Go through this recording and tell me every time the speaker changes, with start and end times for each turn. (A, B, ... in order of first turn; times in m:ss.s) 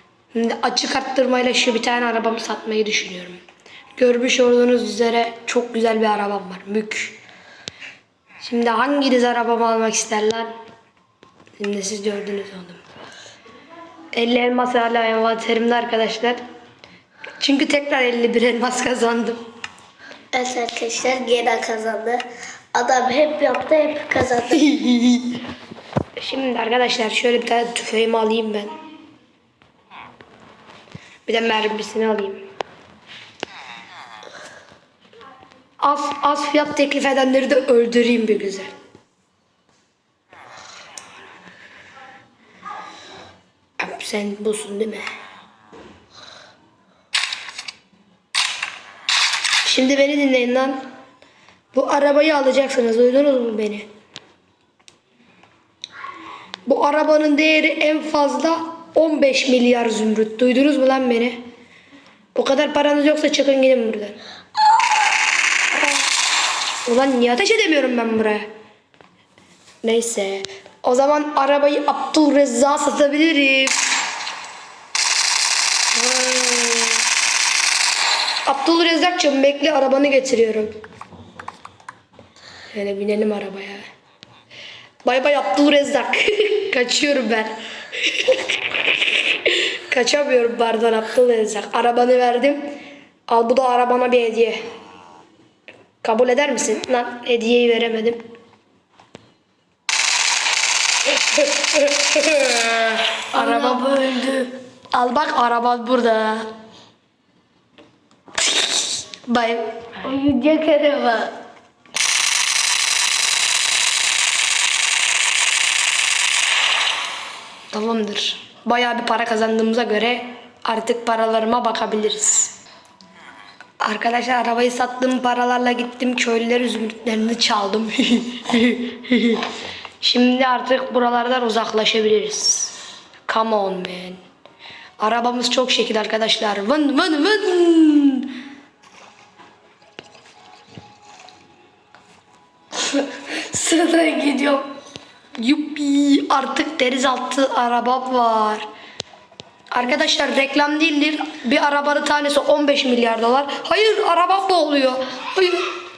0:00.3-0:03.4 A
0:04.0-0:07.2 A
0:08.4-0:10.5 A
0:11.6-0:12.8 A
0:14.1-0:16.4 A
0:17.4-0:19.4 A
0:20.3-0:22.2 B
0:22.7-0:24.7 B
0:24.7-0:25.2 A
0:26.2-0:28.8 A
0:31.2-0:32.4 A
0:35.8-0:38.7 A
0:43.8-0:45.1 A
0:49.6-0:50.8 A
0:51.7-0:53.9 A
0:56.6-1:01.4 A
1:02.3-1:04.2 A
1:06.8-1:08.5 A
1:09.8-1:13.8 A
1:15.9-1:17.0 A
1:18.4-1:20.7 A
1:22.7-1:23.8 A
1:25.0-1:28.5 A
1:29.3-1:32.7 A
1:33.3-1:34.6 A
1:36.0-1:38.2 A
1:41.2-1:46.5 A
1:43.3-1:44.5 B
1:48.4-1:49.9 A
1:50.0-1:51.4 B
1:57.7-2:02.5 A
2:03.8-2:09.4 A
2:10.0-2:12.8 A
2:13.3-2:14.2 A
2:15.0-2:18.3 A
2:23.1-2:24.7 A
2:25.4-2:28.7 A
2:29.7-2:35.7 A